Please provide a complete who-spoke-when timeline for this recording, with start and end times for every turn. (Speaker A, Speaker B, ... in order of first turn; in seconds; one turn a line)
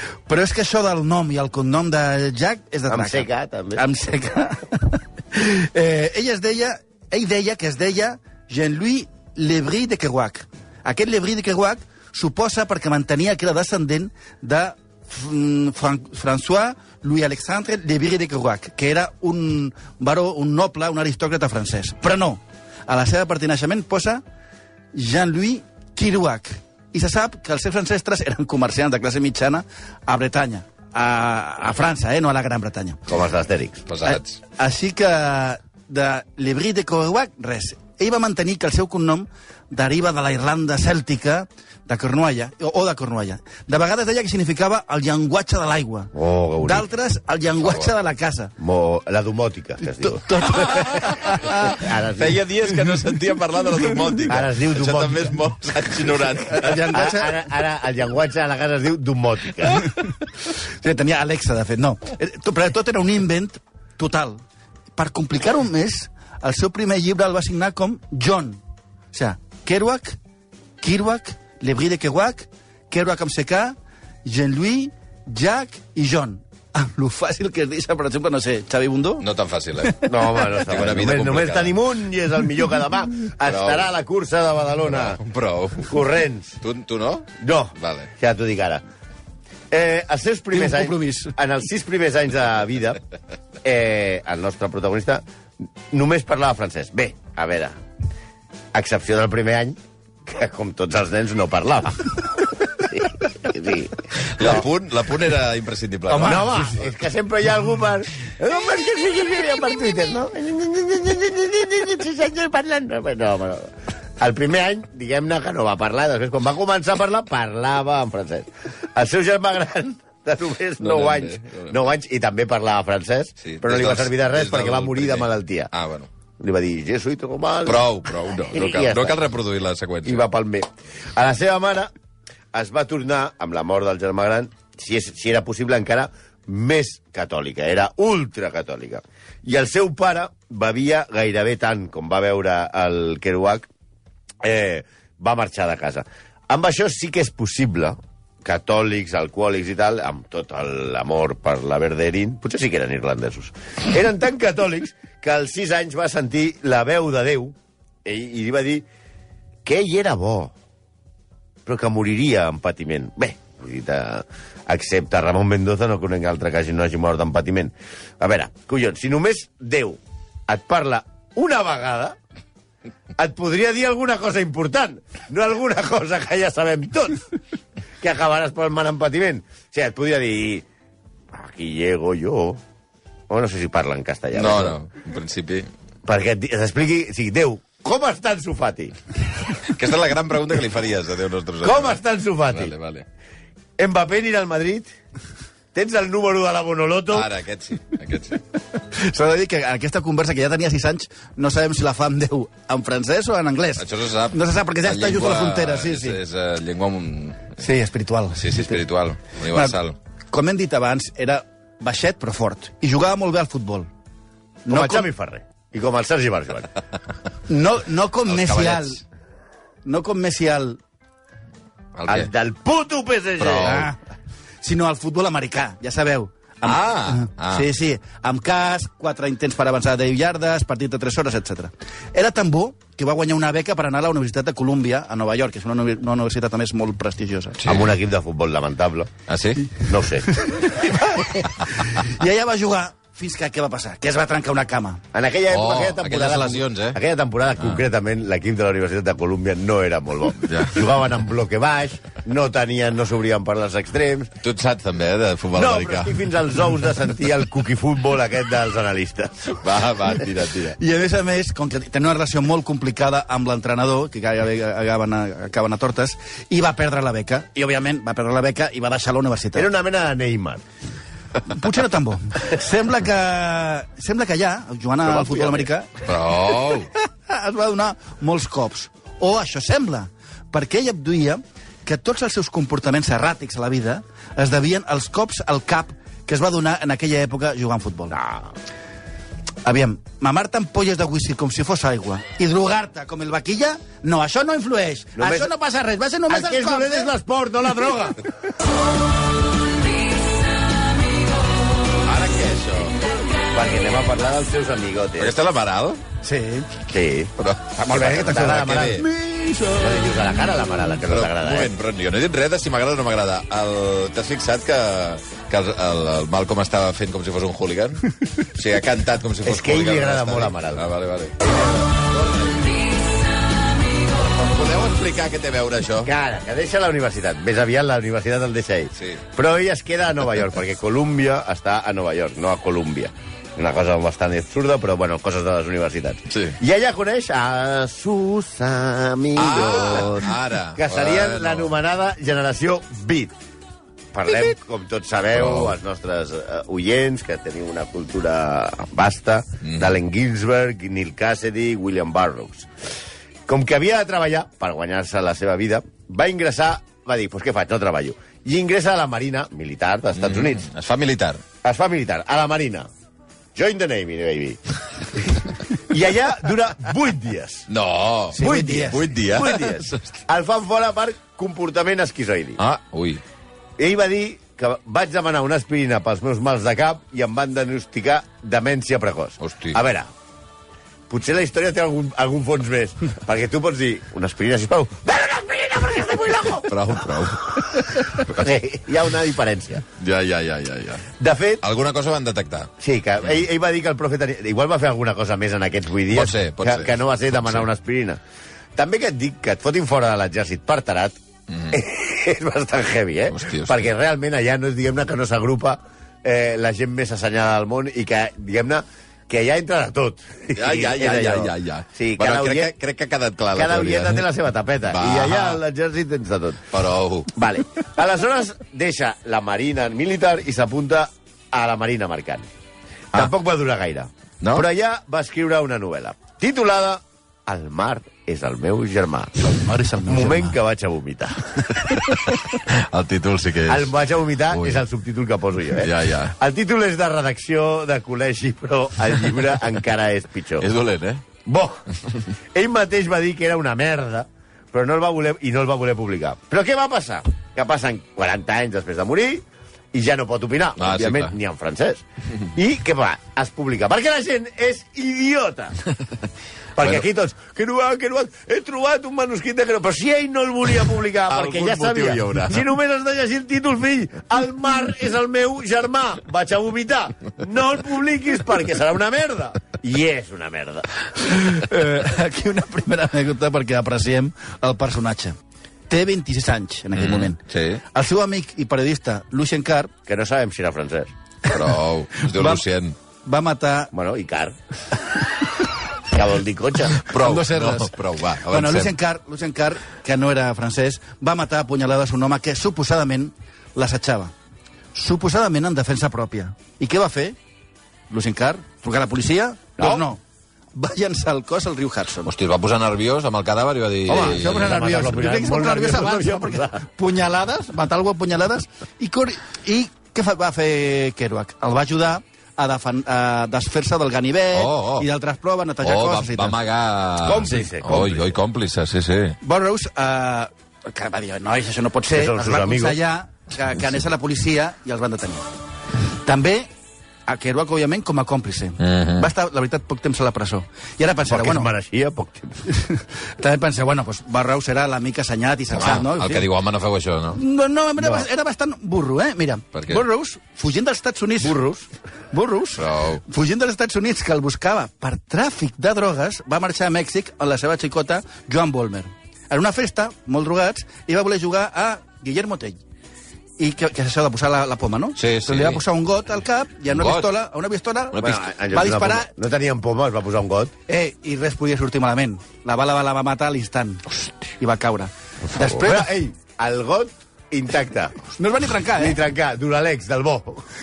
Speaker A: 0.3-24.2
Speaker B: 2.9-3.9
Speaker A: 24.9-33.0
Speaker B: 33.1-33.8
Speaker C: 33.9-34.4
Speaker A: 34.0-46.1
Speaker B: 46.1-46.9
Speaker A: 46.6-48.5
Speaker B: 48.6-50.5
Speaker A: 49.8-51.8
Speaker C: 50.6-51.5
Speaker B: 51.5-52.4
Speaker C: 52.2-56.8
Speaker B: 54.3-55.4
Speaker A: 56.4-57.4
Speaker B: 56.8-59.9
Speaker A: 60.8-64.4
Speaker A: 65.0-68.6
Speaker A: 69.1-70.2
Speaker A: 70.8-79.2
Speaker C: 79.2-81.8
Speaker A: 79.8-80.4
Speaker B: 80.0-85.2
Speaker C: 83.4-83.9
Speaker C: 84.8-86.0
Speaker B: 85.8-86.6
Speaker C: 86.6-88.1
Speaker B: 87.4-88.8
Speaker B: 89.7-93.0
Speaker A: 90.5-91.3
Speaker B: 93.6-95.2
Speaker B: 95.9-97.8
Speaker B: 98.7-104.6
Speaker C: 104.3-106.5
Speaker A: 106.1-106.8
Speaker B: 106.2-125.7
Speaker C: 120.8-121.8
Speaker C: 123.4-126.1
Speaker B: 126.4-127.9
Speaker C: 127.7-130.2
Speaker B: 128.5-129.2
Speaker B: 130.0-131.9
Speaker B: 132.5-143.7
Speaker B: 144.4-158.8
Speaker B: 159.6-160.5
Speaker B: 161.6-172.2
Speaker B: 173.2-177.2
Speaker B: 178.0-180.7
Speaker B: 181.3-182.6
Speaker B: 183.3-184.8
Speaker C: 184.3-185.7
Speaker B: 186.1-188.9
Speaker C: 189.6-193.1
Speaker B: 191.6-192.7
Speaker B: 193.8-194.9
Speaker B: 195.7-197.3
Speaker C: 197.1-198.4
Speaker A: 198.8-206.2
Speaker C: 203.8-207.6
Speaker A: 207.6-208.8
Speaker C: 208.3-209.9
Speaker A: 209.5-209.8
Speaker A: 210.3-213.9
Speaker A: 214.7-215.1
Speaker B: 214.7-216.7
Speaker A: 217.5-219.0
Speaker C: 218.3-219.0
Speaker A: 219.8-220.8
Speaker C: 221.9-222.3
Speaker B: 222.1-223.9
Speaker C: 223.4-223.9
Speaker A: 223.6-224.0
Speaker A: 224.6-237.6
Speaker C: 226.6-227.7
Speaker C: 237.6-237.9
Speaker B: 237.7-239.1
Speaker C: 239.3-239.8
Speaker B: 239.8-240.4
Speaker A: 240.3-245.0
Speaker B: 245.1-254.3
Speaker C: 245.5-247.0
Speaker C: 250.4-250.9
Speaker C: 254.4-256.2
Speaker B: 255.5-259.6
Speaker C: 259.5-260.8
Speaker A: 260.8-269.7
Speaker B: 269.5-270.6
Speaker A: 271.4-276.1
Speaker B: 275.0-275.7
Speaker C: 276.0-276.9
Speaker A: 276.7-288.2
Speaker B: 288.1-288.5
Speaker A: 289.6-297.1
Speaker B: 295.2-295.5
Speaker B: 296.3-298.2
Speaker C: 302.0-303.0
Speaker B: 303.5-305.3
Speaker C: 305.2-306.0
Speaker A: 306.2-306.7
Speaker B: 306.9-309.1
Speaker C: 307.4-309.1
Speaker A: 307.8-310.0
Speaker B: 309.7-311.7
Speaker C: 311.0-322.7
Speaker B: 319.4-320.9
Speaker C: 324.1-326.1
Speaker B: 326.0-343.3
Speaker C: 336.3-336.6
Speaker C: 339.4-341.7
Speaker B: 344.1-352.7
Speaker C: 345.3-345.7
Speaker C: 349.6-349.9
Speaker B: 353.5-360.7
Speaker C: 360.2-361.4
Speaker B: 361.6-362.9
Speaker B: 363.5-364.6
Speaker B: 365.1-367.7
Speaker C: 367.7-370.1
Speaker A: 368.3-369.0
Speaker B: 368.3-372.6
Speaker C: 372.6-373.2
Speaker B: 373.8-380.1
Speaker C: 379.4-379.8
Speaker B: 381.1-386.8
Speaker C: 386.6-388.4
Speaker B: 387.5-389.9
Speaker C: 390.0-391.1
Speaker B: 391.2-391.6
Speaker C: 391.6-392.7
Speaker B: 392.8-398.2
Speaker C: 396.1-397.6
Speaker B: 398.7-401.2
Speaker C: 401.5-401.8
Speaker B: 401.7-412.7
Speaker C: 403.3-403.8
Speaker C: 410.5-414.2
Speaker B: 413.5-416.7
Speaker C: 414.9-415.6
Speaker C: 416.7-417.3
Speaker B: 417.3-422.5
Speaker B: 423.1-429.3
Speaker A: 429.4-430.6
Speaker B: 430.0-431.7
Speaker C: 432.0-434.0
Speaker B: 433.7-440.7
Speaker C: 434.5-434.8
Speaker C: 435.8-436.3
Speaker C: 440.6-441.2
Speaker B: 441.4-441.8
Speaker B: 442.5-455.8
Speaker C: 450.8-451.3
Speaker B: 456.8-470.9
Speaker C: 461.3-462.6
Speaker A: 471.2-475.4
Speaker A: 475.9-477.4
Speaker C: 476.9-477.8
Speaker A: 477.9-479.9
Speaker B: 480.1-481.1
Speaker C: 481.5-482.9
Speaker A: 482.1-482.6
Speaker A: 483.2-483.9
Speaker B: 483.9-484.6
Speaker B: 486.1-487.0
Speaker C: 486.9-488.9
Speaker A: 487.1-487.9
Speaker A: 488.5-494.3
Speaker A: 494.9-497.4
Speaker A: 498.1-500.2
Speaker B: 499.8-500.1
Speaker A: 500.7-502.3
Speaker C: 502.2-504.8
Speaker B: 504.1-506.8
Speaker A: 504.1-516.5
Speaker C: 514.5-515.1
Speaker C: 515.8-519.4
Speaker B: 517.2-518.3
Speaker A: 519.4-525.5
Speaker B: 522.1-523.0
Speaker A: 526.2-526.7
Speaker A: 527.3-531.7
Speaker C: 528.8-529.3
Speaker B: 531.3-532.6
Speaker A: 532.7-536.5
Speaker C: 535.7-537.4
Speaker A: 537.3-541.6
Speaker C: 539.7-540.0
Speaker B: 541.4-541.9
Speaker A: 542.3-552.8
Speaker C: 542.8-543.2
Speaker A: 553.6-559.3
Speaker C: 555.1-555.8
Speaker C: 556.9-557.3
Speaker B: 558.1-560.7
Speaker A: 560.9-566.1
Speaker B: 565.5-568.2
Speaker A: 568.3-569.2
Speaker B: 569.0-570.6